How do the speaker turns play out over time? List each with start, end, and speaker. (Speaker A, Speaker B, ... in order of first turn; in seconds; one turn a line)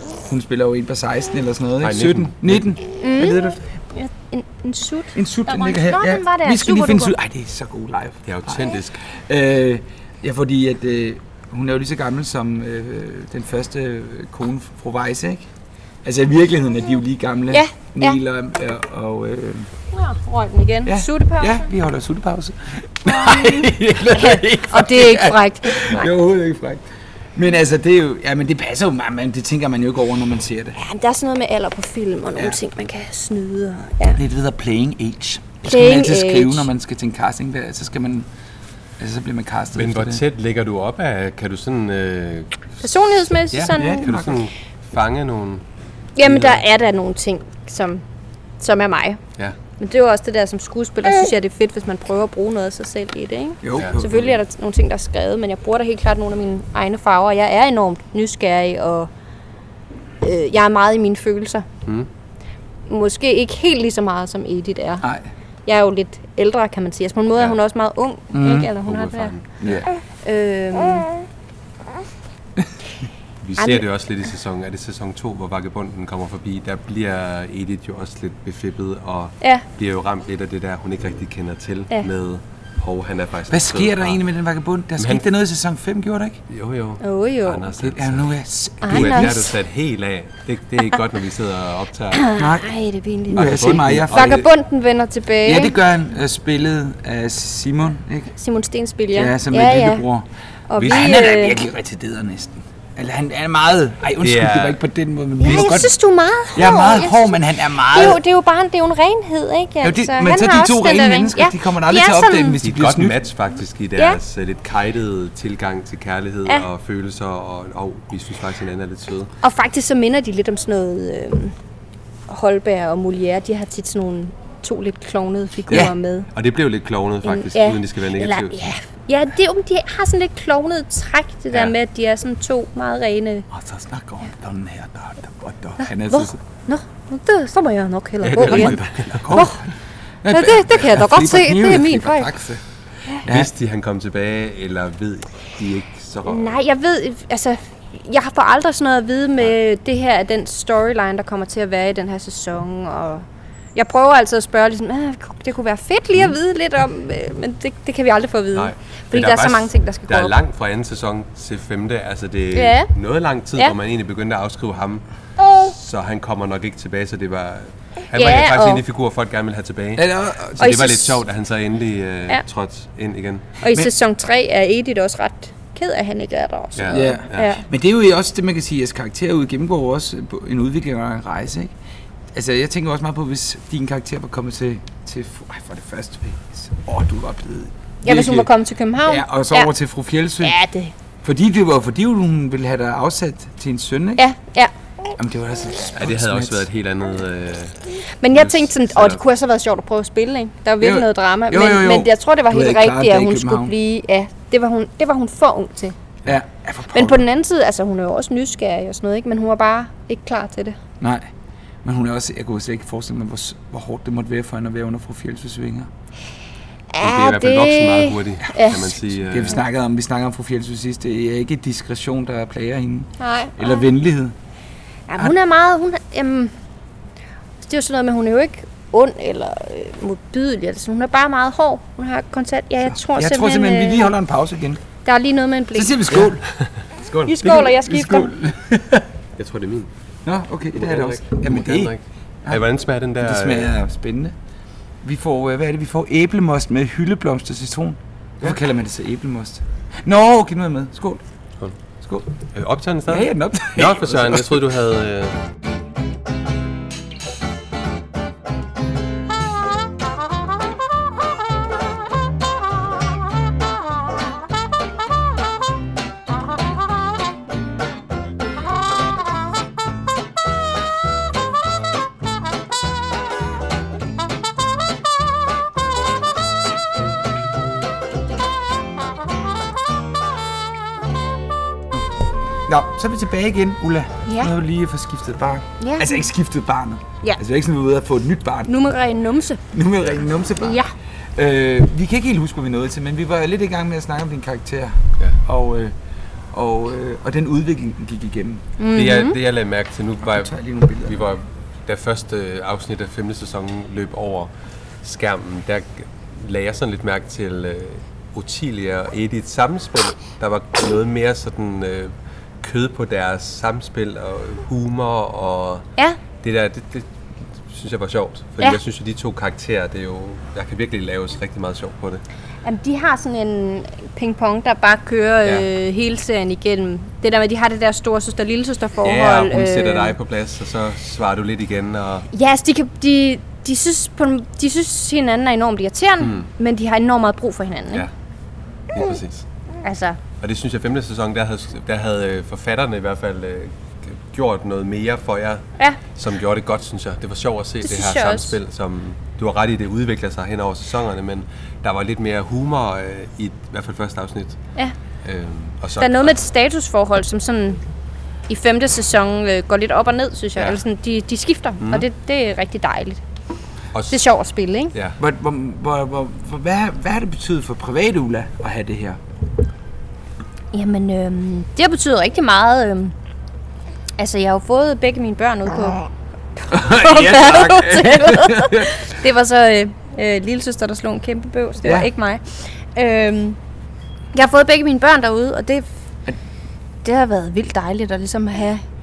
Speaker A: 0.2-3.6
Speaker B: 1.8-2.7
Speaker C: 3.0-7.1
Speaker A: 5.1-15.5
Speaker B: 8.2-9.0
Speaker A: 16.0-19.7
Speaker C: 17.5-18.2
Speaker C: 19.9-21.7
Speaker A: 20.8-26.8
Speaker C: 23.0-26.1
Speaker A: 27.3-30.8
Speaker C: 30.8-34.2
Speaker A: 34.1-38.3
Speaker C: 35.6-36.7
Speaker A: 39.0-40.2
Speaker B: 39.7-42.8
Speaker C: 42.8-44.1
Speaker B: 43.5-45.6
Speaker A: 43.7-44.4
Speaker C: 46.1-48.0
Speaker B: 46.2-46.6
Speaker C: 48.6-49.2
Speaker C: 49.8-59.1
Speaker A: 53.6-54.3
Speaker B: 53.7-54.0
Speaker C: 60.2-61.6
Speaker C: 62.9-65.0
Speaker C: 65.7-69.3
Speaker A: 68.3-68.7
Speaker B: 68.8-69.8
Speaker A: 69.6-69.9
Speaker C: 70.2-71.1
Speaker B: 73.4-84.2
Speaker C: 73.6-73.8
Speaker A: 83.5-86.4
Speaker B: 85.0-85.2
Speaker B: 86.5-88.3
Speaker C: 87.0-87.7
Speaker A: 87.8-89.3
Speaker C: 88.8-89.5
Speaker B: 88.8-92.3
Speaker C: 92.1-95.7
Speaker A: 92.3-92.7
Speaker A: 93.3-94.4
Speaker B: 93.3-94.5
Speaker A: 95.4-98.3
Speaker C: 98.4-100.0
Speaker A: 99.1-100.2
Speaker C: 100.7-101.6
Speaker B: 100.8-101.1
Speaker A: 100.8-106.0
Speaker B: 104.2-104.8
Speaker C: 105.4-112.6
Speaker A: 106.5-108.2
Speaker A: 109.8-113.2
Speaker B: 112.6-119.3
Speaker C: 119.4-121.5
Speaker C: 122.3-126.3
Speaker B: 125.7-128.6
Speaker C: 127.2-133.5
Speaker A: 133.5-136.4
Speaker C: 135.9-139.6
Speaker B: 138.2-139.4
Speaker A: 138.4-139.6
Speaker A: 140.2-143.5
Speaker C: 140.3-142.3
Speaker B: 143.3-146.6
Speaker C: 146.2-160.3
Speaker B: 158.5-165.0
Speaker C: 162.5-162.9
Speaker B: 165.6-173.6
Speaker C: 168.1-168.8
Speaker A: 170.0-170.7
Speaker C: 170.6-171.2
Speaker C: 173.6-177.6
Speaker B: 176.8-177.6
Speaker A: 176.9-181.7
Speaker A: 182.3-188.5
Speaker C: 188.0-189.7
Speaker A: 189.0-190.6
Speaker C: 190.4-190.9
Speaker A: 191.2-194.2
Speaker C: 194.2-194.7
Speaker A: 195.2-196.6
Speaker B: 196.0-197.8
Speaker C: 198.2-205.9
Speaker B: 198.3-199.2
Speaker A: 200.8-203.7
Speaker A: 206.2-207.2
Speaker C: 206.9-210.8
Speaker A: 211.0-211.3
Speaker A: 211.8-215.9
Speaker C: 216.9-218.9
Speaker B: 217.0-219.6
Speaker A: 219.3-224.3
Speaker C: 223.2-223.8
Speaker C: 225.1-226.5
Speaker C: 227.6-234.1
Speaker A: 232.9-234.8
Speaker C: 235.0-236.2
Speaker A: 235.7-236.4
Speaker B: 236.2-237.6
Speaker C: 237.3-238.3
Speaker A: 237.4-239.0
Speaker B: 239.3-239.9
Speaker A: 240.2-241.9
Speaker B: 240.7-243.7
Speaker A: 243.2-244.3
Speaker A: 245.0-251.2
Speaker A: 252.0-252.3
Speaker B: 252.5-255.4
Speaker A: 253.1-254.6
Speaker A: 282.7-288.7
Speaker C: 284.3-284.5
Speaker C: 285.8-286.1
Speaker C: 288.7-289.6
Speaker A: 289.7-290.8
Speaker C: 290.6-290.9
Speaker A: 291.4-295.9
Speaker A: 296.5-298.6
Speaker C: 298.8-299.4
Speaker B: 298.9-315.9
Speaker A: 300.2-301.3
Speaker B: 316.4-322.2
Speaker C: 322.6-330.1
Speaker B: 329.0-332.3
Speaker C: 332.3-338.1
Speaker B: 336.2-336.5
Speaker B: 338.9-339.4
Speaker C: 339.8-340.2
Speaker B: 340.4-354.6
Speaker C: 347.8-348.5
Speaker B: 355.2-356.4
Speaker C: 356.0-357.8
Speaker C: 358.5-363.2
Speaker B: 361.8-362.1
Speaker B: 363.9-364.2
Speaker C: 364.1-364.9
Speaker A: 365.2-369.2
Speaker C: 370.7-373.1
Speaker C: 374.2-383.6
Speaker A: 376.7-379.0
Speaker A: 381.8-382.1
Speaker C: 384.3-385.9
Speaker C: 387.0-388.8